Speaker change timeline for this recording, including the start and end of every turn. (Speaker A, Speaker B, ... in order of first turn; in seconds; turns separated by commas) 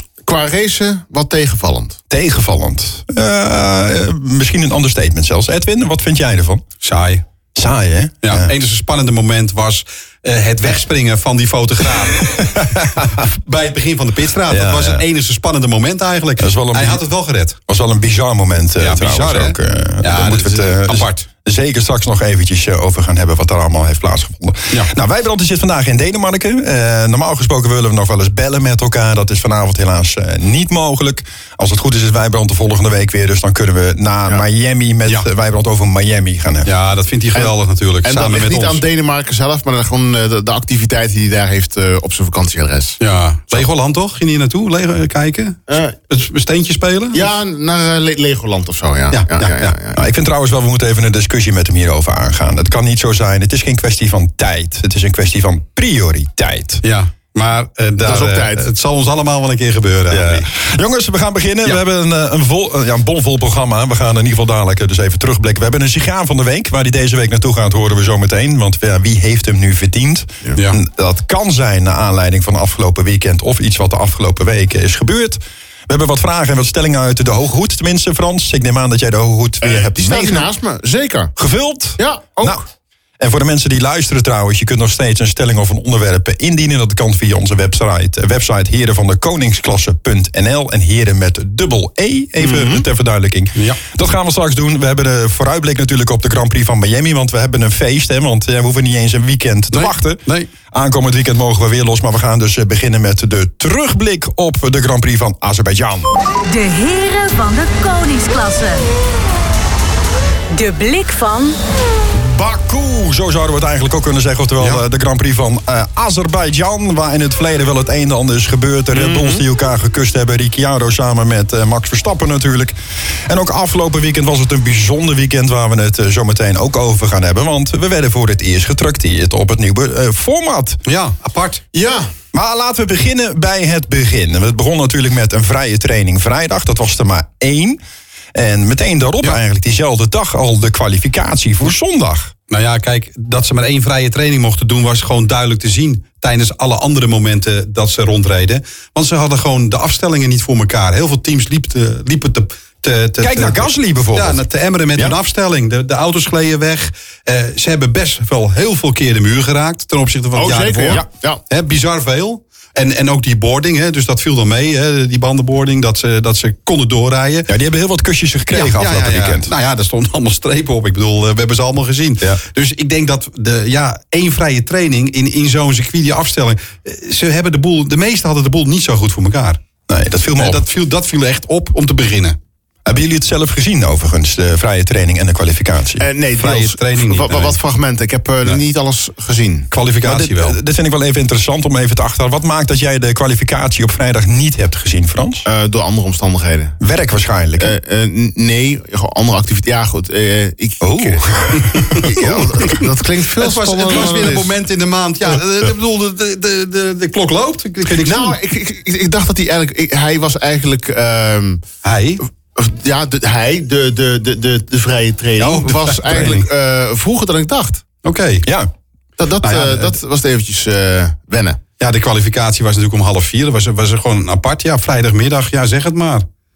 Speaker A: 0.2-2.0, Speaker B: 2.1-6.6, Speaker C: 6.8-7.2, Speaker B: 7.6-8.5, Speaker C: 8.2-12.5, Speaker B: 12.1-13.3, Speaker C: 13.1-17.6, Speaker B: 14.5-15.0, Speaker B: 16.4-17.0, Speaker B: 17.7-36.7, Speaker C: 18.8-21.3, Speaker C: 36.7-38.8, Speaker A: 37.3-43.0, Speaker C: 43.0-47.3, Speaker A: 45.7-46.0, Speaker A: 47.1-50.0, Speaker C: 49.1-49.7, Speaker B: 49.9-56.8, Speaker C: 56.8-60.5, Speaker A: 58.0-58.6, Speaker B: 60.1-80.5, Speaker A: 79.6-81.3, Speaker B: 81.4-82.6, Speaker A: 82.0-82.6, Speaker B: 83.2-106.1, Speaker A: 92.4-92.8, Speaker C: 93.5-93.8, Speaker C: 99.7-100.5, Speaker D: 106.4-108.9, Speaker D: 110.5-111.6, Speaker B: 112.1-122.8, Speaker C: 119.1-119.4, Speaker B: 123.3-130.8, Speaker C: 130.9-131.6, Speaker A: 131.7-132.1, Speaker B: 132.3-137.8, Speaker B: 138.3-142.3, Speaker C: 142.5-167.5, Speaker B: 153.2-154.4, Speaker A: 160.3-161.4, Speaker B: 167.5-169.5, Speaker C: 168.5-179.6, Speaker B: 179.9-180.6, Speaker C: 180.4-182.4, Speaker B: 182.8-186.1, Speaker A: 186.0-189.7, Speaker C: 186.4-187.6, Speaker C: 189.7-190.6, Speaker B: 190.0-195.5, Speaker A: 195.5-196.8, Speaker B: 196.8-197.8, Speaker A: 197.6-204.5, Speaker B: 200.8-202.8, Speaker C: 203.4-208.4, Speaker A: 207.9-211.6, Speaker C: 211.8-212.2, Speaker A: 212.6-217.8, Speaker C: 215.4-216.5, Speaker C: 218.0-218.5, Speaker B: 218.4-218.7, Speaker A: 219.2-221.6, Speaker C: 219.4-220.0, Speaker C: 221.8-226.3